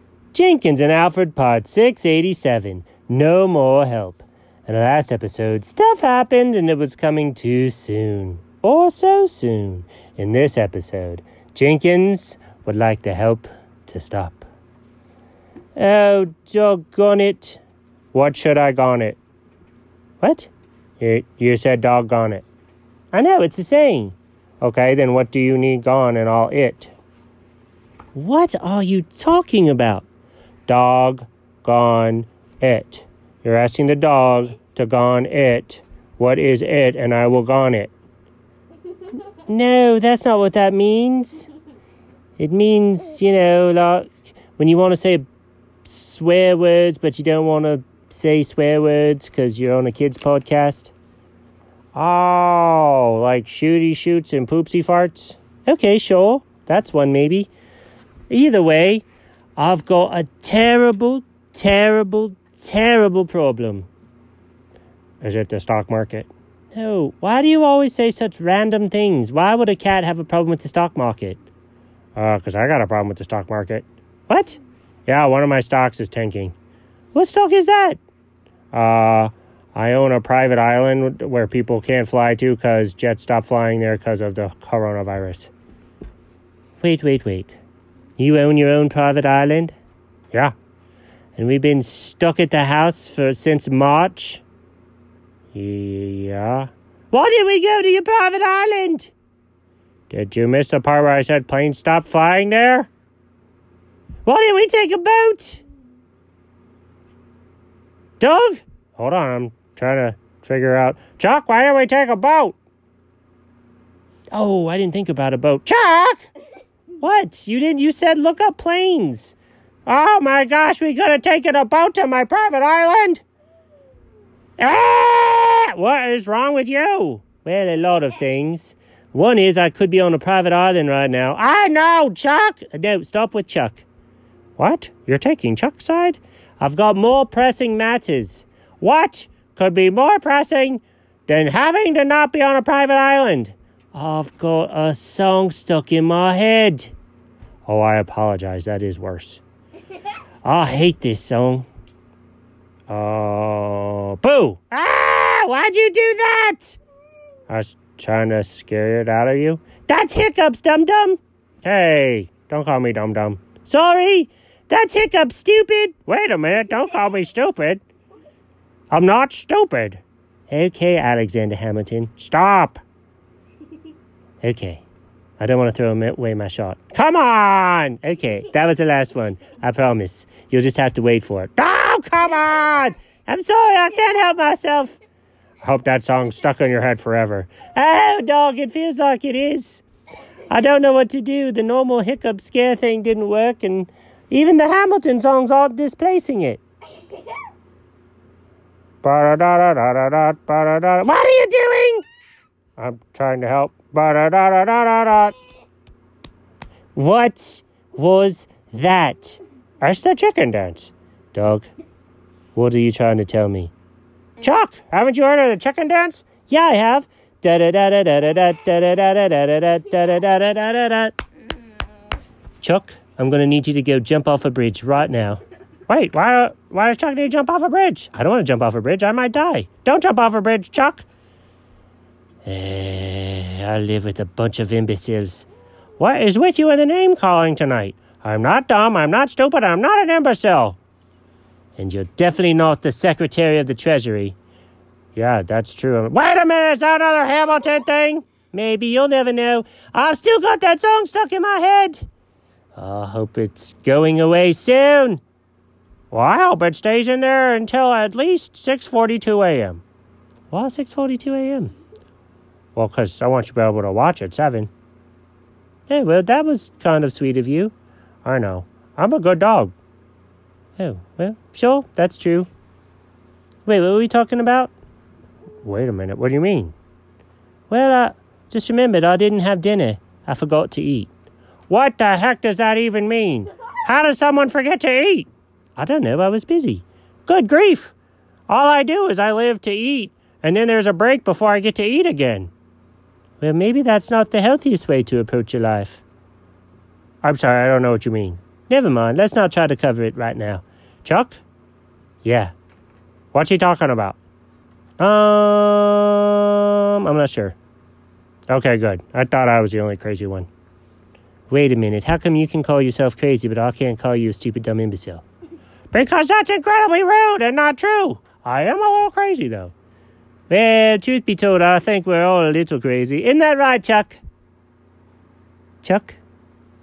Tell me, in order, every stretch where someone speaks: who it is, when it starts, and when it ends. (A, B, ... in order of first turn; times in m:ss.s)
0:00.3-0:14.4 A
0:15.8-0:17.6 A
0:18.1-0:19.2 A
0:20.2-0:22.4 A
0:23.1-0:26.9 A
0:28.1-0:30.0 A
0:30.7-0:37.9 A
0:39.4-0:41.5 A
0:42.4-0:45.2 A
0:45.8-0:50.9 A
0:51.9-0:57.5 A
0:58.3-0:59.0 A
0:59.6-1:03.9 A
1:05.2-1:11.4 A
1:12.2-1:16.5 A
1:17.1-1:18.0 A
1:18.7-1:25.5 A
1:26.8-1:27.6 A
1:28.2-1:29.8 A
1:31.4-1:34.4 A
1:35.5-1:39.1 A
1:40.1-1:42.9 A
1:44.2-1:45.6 A
1:48.2-1:52.6 A
1:54.3-1:56.2 A
1:57.0-1:59.3 A
1:59.8-2:03.2 A
2:04.6-2:13.8 A
2:14.6-2:26.9 A
2:27.6-2:29.4 A
2:30.4-2:31.7 A
2:32.9-2:36.8 A
2:37.5-2:47.8 A
2:48.9-2:52.8 A
2:54.4-2:54.8 A
2:55.4-3:05.0 A
3:05.6-3:09.8 A
3:10.5-3:16.6 A
3:19.0-3:22.0 A
3:22.8-3:25.3 A
3:26.9-3:31.7 A
3:32.5-3:33.7 A
3:34.4-3:41.2 A
3:42.6-3:51.0 A
3:52.4-3:55.5 A
3:56.0-4:00.8 A
4:01.8-4:04.4 A
4:05.1-4:12.0 A
4:12.8-4:15.2 A
4:16.1-4:19.8 A
4:20.5-4:21.7 A
4:22.7-4:24.7 A
4:25.9-4:29.7 A
4:30.8-4:32.5 A
4:33.6-4:34.7 A
4:35.6-4:36.7 A
4:37.7-4:41.1 A
4:41.7-4:47.9 A
4:48.5-4:52.5 A
4:53.4-4:56.0 A
4:57.2-5:01.4 A
5:02.2-5:02.5 A
5:03.3-5:04.2 A
5:05.0-5:07.6 A
5:08.5-5:10.5 A
5:11.5-5:15.2 A
5:15.9-5:19.7 A
5:20.5-5:24.2 A
5:25.8-5:26.2 A